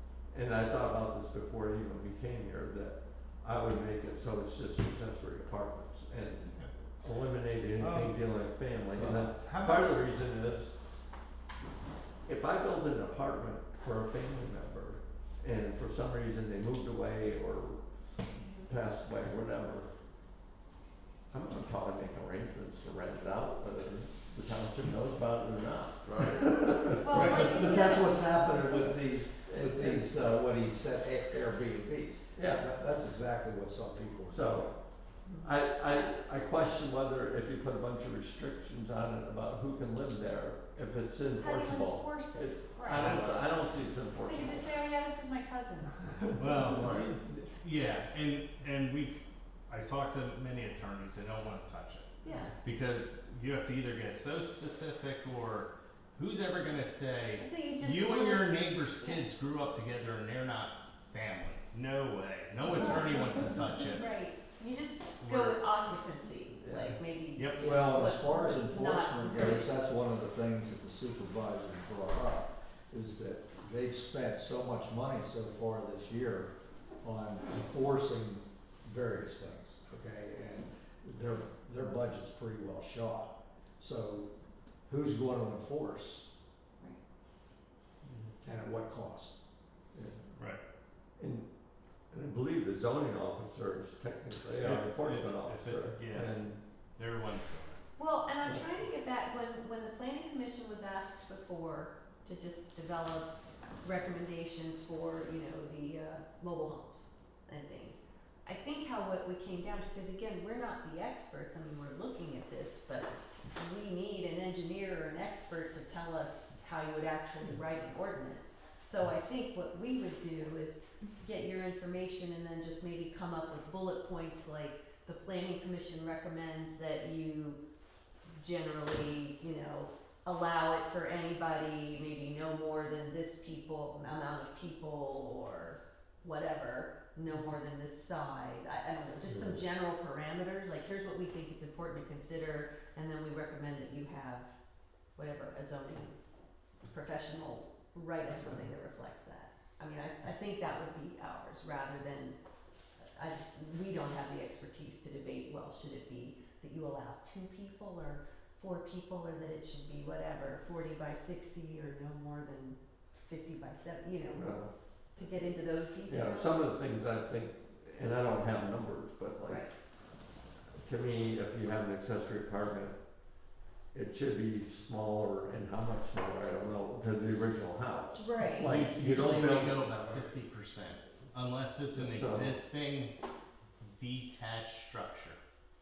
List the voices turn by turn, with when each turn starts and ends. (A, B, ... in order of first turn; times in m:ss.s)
0:00.3-0:10.8 A
0:06.4-0:06.7 B
0:07.8-0:08.2 B
0:09.0-0:10.0 B
0:12.3-0:17.8 A
0:18.4-0:18.7 C
0:18.5-0:19.9 A
0:21.3-0:27.8 A
0:27.0-0:28.3 C
0:27.0-0:34.7 D
0:29.5-0:30.2 A
0:32.4-0:32.6 A
0:34.3-0:34.7 A
0:35.4-0:44.7 A
0:41.4-0:43.5 C
0:42.9-0:43.4 B
0:44.2-0:46.3 C
0:46.4-0:52.1 B
0:52.2-0:52.5 C
0:52.6-1:04.0 B
0:57.4-0:59.2 C
1:02.8-1:03.1 C
1:03.8-1:09.7 C
1:05.2-1:05.6 B
1:06.6-1:07.0 A
1:07.4-1:07.7 B
1:07.6-1:24.3 D
1:24.9-1:26.2 D
1:28.4-1:29.4 D
1:29.9-1:30.3 A
1:30.4-1:30.6 B
1:31.2-1:31.5 A
1:32.1-1:36.6 A
1:34.6-1:36.4 B
1:37.0-1:37.8 B
1:38.0-1:43.3 C
1:43.8-2:07.6 C
2:08.3-2:24.5 C
2:19.3-2:19.6 D
2:25.2-2:26.2 C
2:26.8-2:32.4 C
2:33.1-2:44.5 C
2:44.3-2:44.7 A
2:45.2-2:46.6 C
2:46.1-2:49.7 A
2:50.8-2:53.0 A
2:53.9-3:00.2 A
2:58.1-2:58.7 C
2:58.6-3:03.1 B
3:02.0-3:02.6 A
3:03.8-3:05.4 B